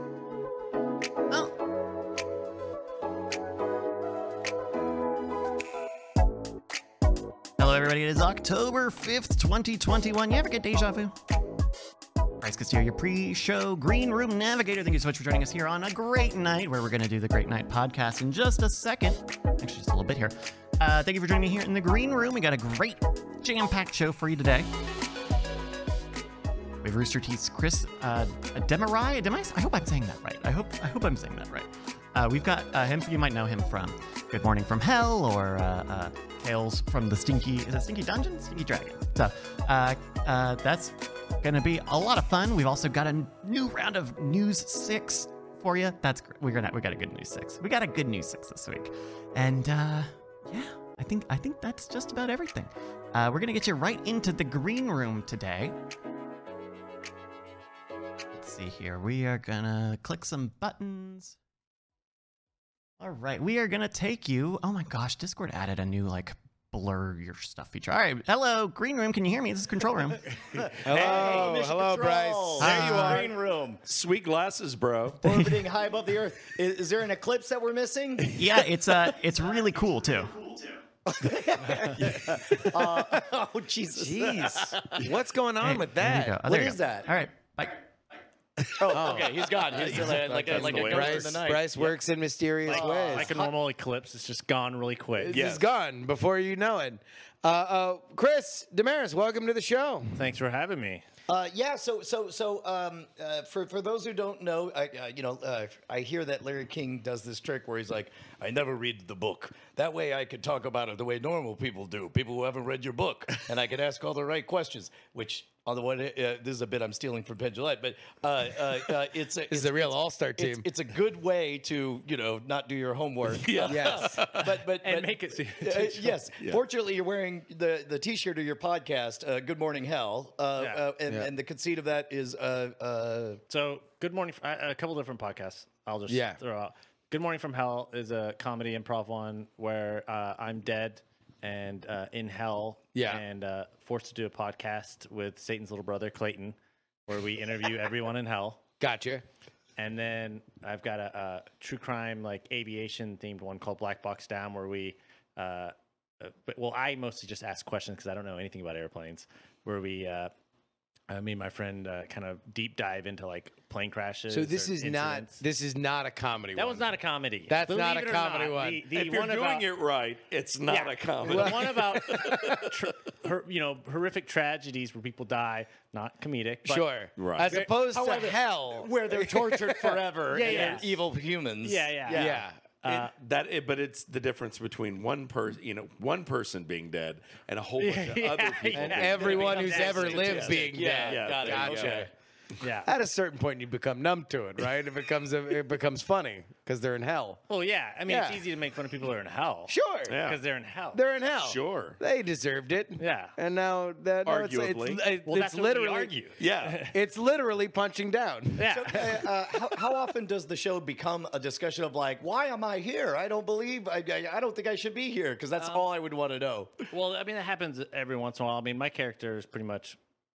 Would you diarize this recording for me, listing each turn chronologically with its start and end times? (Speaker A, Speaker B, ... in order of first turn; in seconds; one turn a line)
Speaker A: 7.6-11.2
Speaker A: 12.4-24.7
Speaker A: 26.8-55.8
Speaker A: 58.3-61.4
Speaker A: 63.0-70.7
Speaker B: 70.6-73.8
Speaker C: 70.8-73.3
Speaker D: 70.9-71.6
Speaker A: 72.6-73.2
Speaker D: 73.8-75.2
Speaker B: 75.2-78.4
Speaker A: 75.2-75.6
Speaker A: 78.3-80.8
Speaker B: 81.1-85.0
Speaker D: 82.0-82.8
Speaker C: 83.9-86.4
Speaker A: 85.6-87.8
Speaker B: 86.4-87.1
Speaker B: 88.7-92.0
Speaker C: 88.9-93.5
Speaker D: 89.7-91.4
Speaker E: 92.7-95.4
Speaker B: 92.7-93.5
Speaker C: 95.2-100.2
Speaker D: 95.3-95.7
Speaker E: 100.2-101.0
Speaker B: 101.3-133.4
Speaker C: 119.5-120.7
Speaker D: 123.3-124.5
Speaker C: 123.7-124.2
Speaker E: 124.8-126.2
Speaker E: 130.6-130.9
Speaker E: 133.5-146.6
Speaker C: 136.1-136.4
Speaker C: 142.9-143.2
Speaker E: 147.1-148.6
Speaker C: 148.8-149.2
Speaker E: 149.8-160.3
Speaker E: 161.1-165.4
Speaker C: 164.3-166.9
Speaker E: 166.6-169.7
Speaker C: 167.5-168.9
Speaker D: 168.9-172.9
Speaker E: 170.7-176.9
Speaker C: 171.3-172.2
Speaker C: 176.7-180.8
Speaker D: 177.2-177.6
Speaker B: 177.5-182.4
Speaker E: 180.3-181.0
Speaker E: 181.6-183.1
Speaker C: 182.1-182.8
Speaker D: 183.2-192.0
Speaker E: 187.8-190.6
Speaker C: 188.8-192.1
Speaker B: 190.4-192.1
Speaker E: 192.6-192.9
Speaker C: 192.8-197.4
Speaker E: 197.5-201.0
Speaker C: 198.1-198.4
Speaker C: 199.7-200.2
Speaker D: 200.1-200.4
Speaker C: 200.9-206.3
Speaker D: 201.4-202.0
Speaker E: 203.0-203.4
Speaker D: 204.2-205.0
Speaker E: 205.2-206.9
Speaker D: 206.4-206.8
Speaker C: 206.9-209.2
Speaker E: 208.6-209.1
Speaker B: 208.7-216.8
Speaker E: 215.6-215.9
Speaker E: 216.9-220.0